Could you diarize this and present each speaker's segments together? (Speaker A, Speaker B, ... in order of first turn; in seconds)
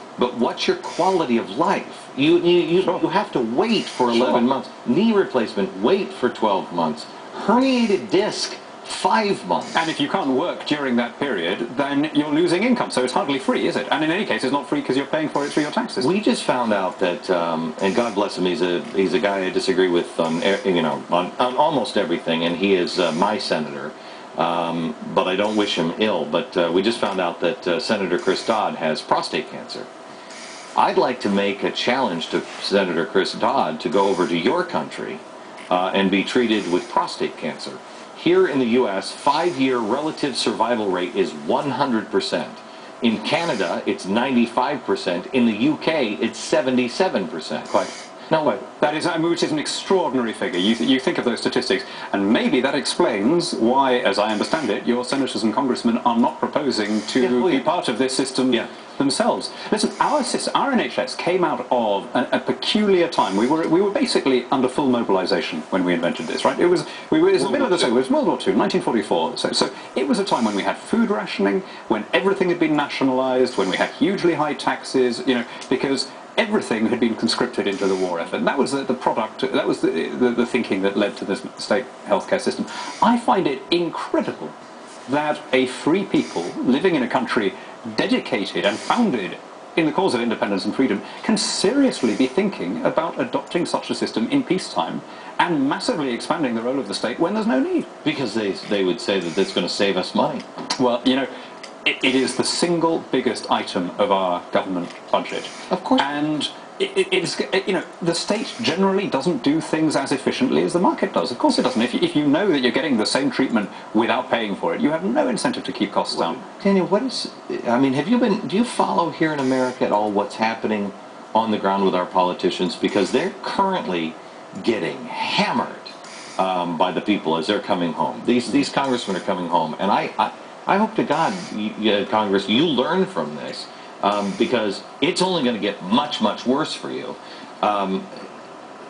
Speaker A: 0.2-9.8, 16.0-29.9, 30.8-47.7, 48.3-48.6, 57.2-57.6, 67.4-67.8, 98.0-100.4, 105.7-106.1, 116.1-138.2
Speaker B: 2.8-3.0, 4.1-4.5, 9.7-16.1, 48.4-84.5, 85.1-97.9, 100.8-101.3, 101.8-116.4